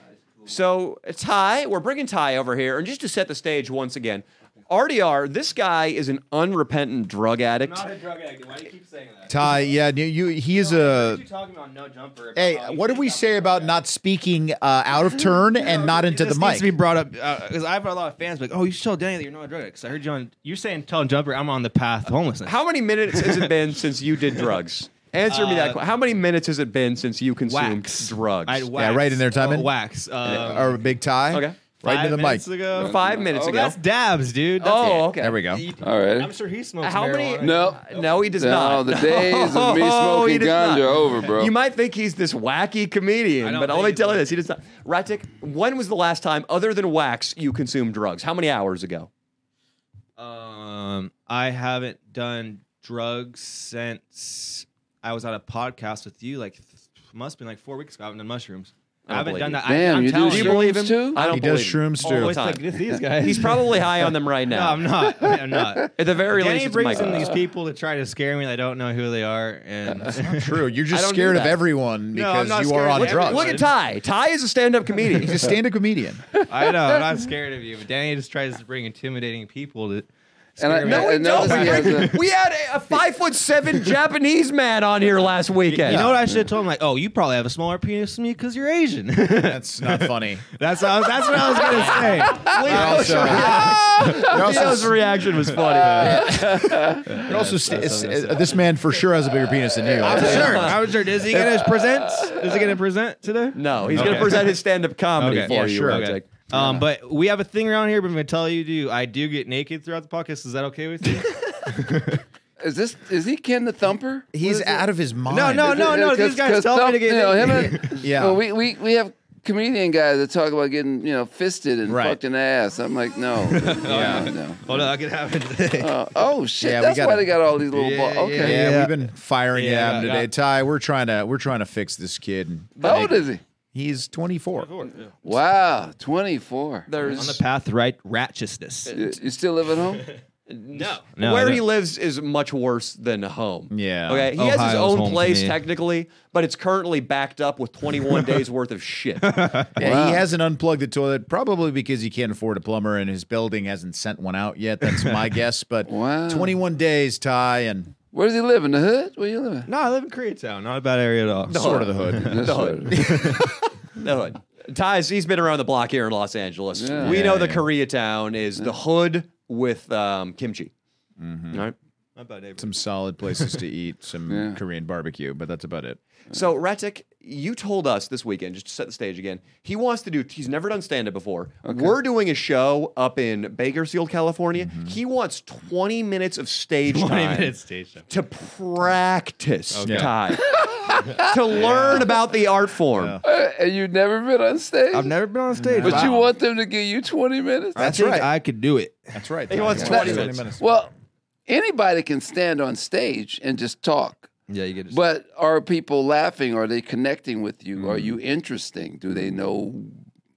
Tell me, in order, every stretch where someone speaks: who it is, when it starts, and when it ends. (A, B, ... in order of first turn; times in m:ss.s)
0:00.4-0:07.9 A
0:07.6-0:09.7 B
0:09.3-0:11.2 C
0:10.5-0:13.8 B
0:12.3-0:16.7 C
0:15.6-0:23.5 B
0:22.4-0:28.7 A
0:25.3-0:25.8 B
0:27.4-0:30.8 B
0:28.7-0:29.7 C
0:30.2-0:32.5 C
0:31.3-0:31.6 A
0:31.8-0:38.3 B
0:32.7-0:33.8 D
0:32.7-0:33.8 A
0:34.6-0:35.4 A
0:34.9-0:35.2 D
0:35.1-0:35.7 C
0:35.8-0:36.4 D
0:36.8-0:49.1 A
0:37.4-0:37.8 D
0:38.4-0:41.5 D
0:43.4-0:44.4 B
0:50.2-1:00.8 B
0:59.1-1:04.9 A
0:59.6-1:01.3 D
1:01.2-1:02.4 C
1:02.0-1:10.6 B
1:05.9-1:07.4 A
1:10.1-1:13.6 C
1:10.9-1:11.6 A
1:12.1-1:13.7 B
1:12.9-1:15.5 A
1:15.1-1:16.2 C
1:16.5-1:22.2 B
1:20.6-1:22.2 D
1:20.8-1:26.1 A
1:25.7-1:34.9 B
1:25.8-1:26.4 C
1:29.4-1:30.4 C
1:32.4-1:36.4 A
1:32.5-1:35.0 C
1:35.4-1:38.6 B
1:35.9-1:40.8 C
1:36.3-1:37.2 D
1:40.0-1:44.6 B
1:40.1-1:40.5 D
1:40.1-1:40.8 A
1:41.2-1:42.6 D
1:43.5-1:46.8 A
1:43.8-1:44.4 C
1:45.2-1:52.2 B
1:45.4-1:46.1 C
1:52.6-1:54.9 D
1:54.3-1:56.0 C
1:55.3-1:58.0 B
1:55.6-2:04.9 D
1:58.0-1:58.4 C
2:01.9-2:02.2 C
2:03.4-2:05.9 B
2:03.9-2:04.3 C
2:05.8-2:08.7 D
2:06.6-2:07.3 C
2:07.7-2:10.3 B
2:08.4-2:14.7 C
2:12.8-2:13.4 D
2:14.5-2:15.1 B
2:15.2-2:17.4 D
2:16.9-2:17.4 A
2:17.1-2:19.0 B
2:18.9-2:20.1 D
2:20.5-2:29.5 A
2:20.7-2:21.6 B
2:23.7-2:24.3 C
2:24.3-2:25.6 B
2:29.2-2:29.8 B
2:29.8-2:37.9 C
2:29.8-2:30.2 D
2:35.8-2:36.6 D
2:38.1-2:39.7 D
2:39.7-2:42.4 B
2:41.5-2:50.7 A
2:41.5-2:43.3 C
2:42.2-2:43.1 D
2:42.9-2:43.5 B
2:46.7-2:47.3 D
2:47.0-2:47.7 C
2:51.2-2:51.6 C
2:52.2-2:52.7 B
2:52.6-2:56.0 C
2:54.3-2:54.6 D
2:56.3-3:07.5 A
3:01.6-3:02.0 D
3:04.6-3:05.0 C
3:06.9-3:08.0 B
3:08.1-3:10.6 A
3:09.7-3:10.2 B
3:09.8-3:10.1 C
3:10.5-3:11.4 D
3:11.2-3:13.2 A
3:11.6-3:12.1 B
3:12.9-3:13.2 C
3:13.2-3:15.2 D
3:14.9-3:16.2 B
3:15.6-3:16.2 C
3:15.8-3:17.9 D
3:17.8-3:19.2 B
3:17.8-3:18.3 C
3:19.1-3:20.7 C
3:19.5-3:20.4 A
3:19.8-3:20.9 D
3:21.5-3:24.3 D
3:24.5-3:25.0 B
3:24.9-3:30.0 D
3:27.8-3:28.2 C